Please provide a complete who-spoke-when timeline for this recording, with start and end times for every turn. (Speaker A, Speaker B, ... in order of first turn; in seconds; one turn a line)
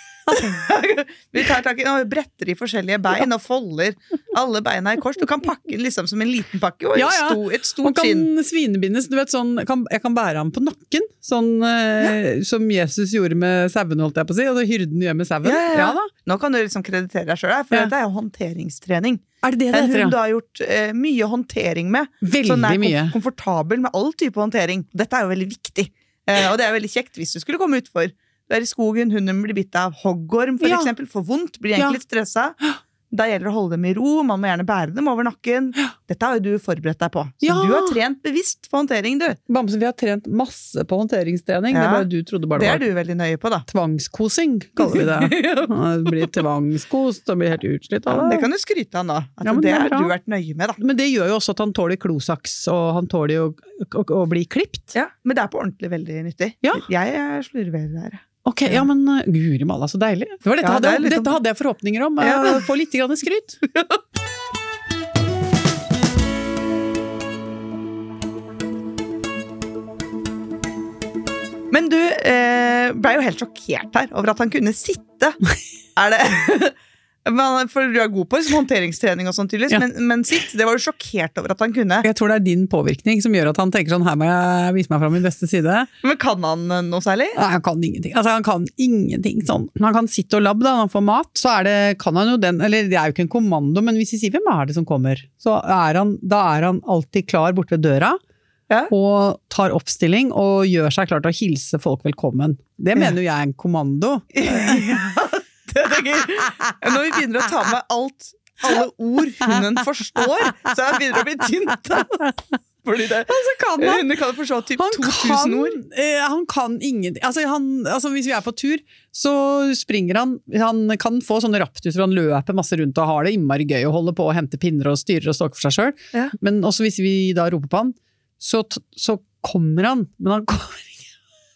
Speaker A: 0.3-8.3
Speaker B: 7.0-16.1
Speaker A: 15.4-32.6
Speaker B: 19.4-20.2
Speaker B: 22.2-23.1
Speaker B: 30.6-30.9
Speaker A: 33.1-39.4
Speaker B: 37.4-38.0
Speaker B: 39.5-42.8
Speaker A: 41.7-43.7
Speaker B: 43.7-48.5
Speaker A: 44.8-45.8
Speaker A: 48.1-50.8
Speaker B: 49.4-50.1
Speaker B: 50.8-54.9
Speaker A: 54.9-58.9
Speaker B: 58.5-63.6
Speaker A: 60.6-61.4
Speaker A: 62.2-62.6
Speaker A: 63.7-64.0
Speaker A: 71.7-75.4
Speaker A: 76.0-82.1
Speaker B: 82.0-85.9
Speaker A: 86.0-87.4
Speaker B: 87.4-98.2
Speaker B: 98.9-104.9
Speaker A: 104.3-112.3
Speaker A: 112.8-115.8
Speaker B: 113.3-114.1
Speaker B: 114.8-131.1